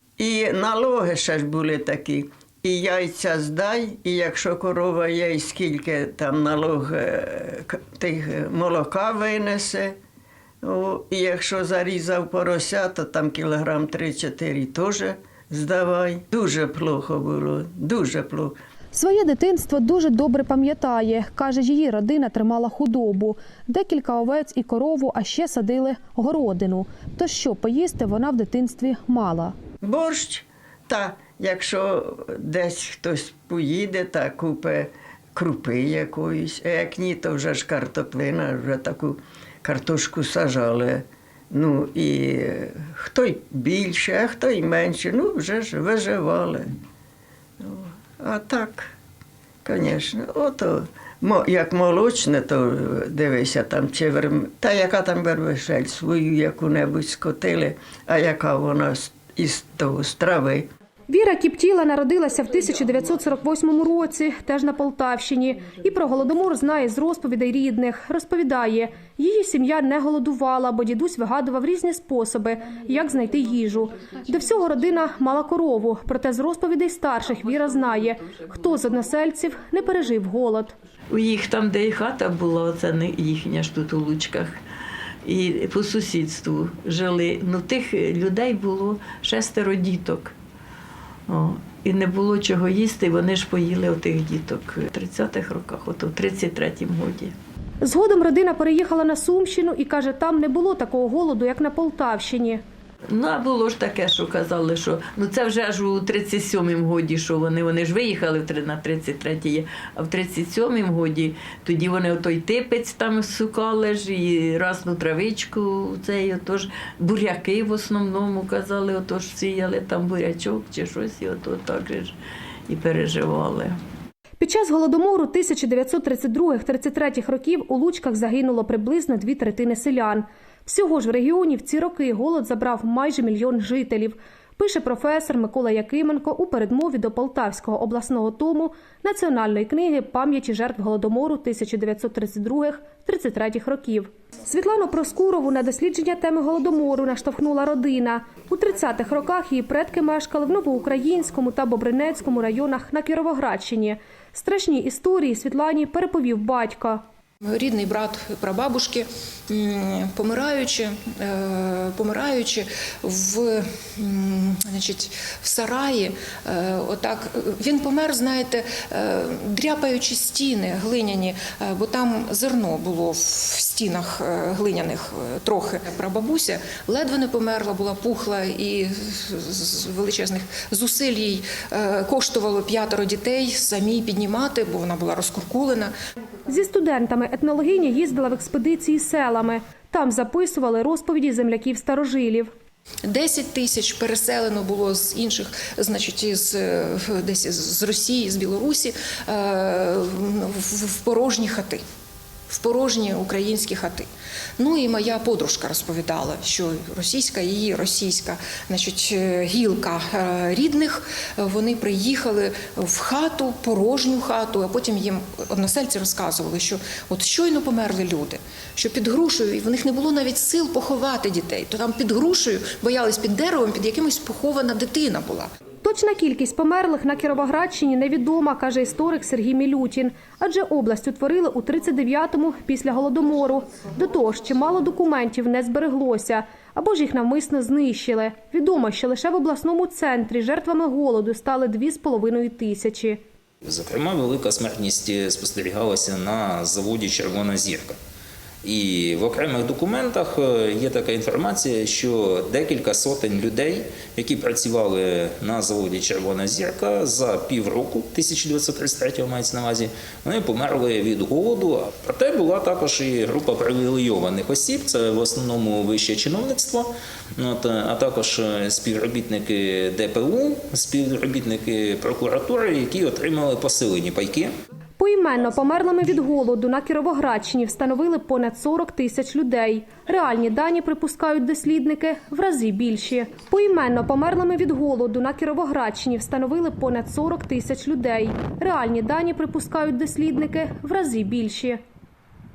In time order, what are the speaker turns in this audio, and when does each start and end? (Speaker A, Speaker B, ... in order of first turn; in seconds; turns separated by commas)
Speaker A: 0.2-10.0, Speaker A: 10.6-18.6, Speaker B: 18.9-29.5, Speaker A: 29.8-46.7, Speaker A: 47.6-48.9, Speaker A: 49.6-60.7, Speaker B: 61.1-80.7, Speaker C: 81.1-84.6, Speaker C: 85.2-90.3, Speaker C: 91.3-97.3, Speaker B: 97.8-102.6, Speaker C: 103.1-122.1, Speaker C: 122.7-123.8, Speaker B: 124.4-157.0, Speaker D: 157.4-185.9, Speaker B: 186.5-192.5, Speaker D: 193.1-201.8, Speaker D: 202.5-204.1, Speaker D: 204.6-225.5, Speaker B: 225.8-243.2, Speaker E: 243.6-247.9, Speaker E: 248.6-274.5, Speaker B: 275.0-291.8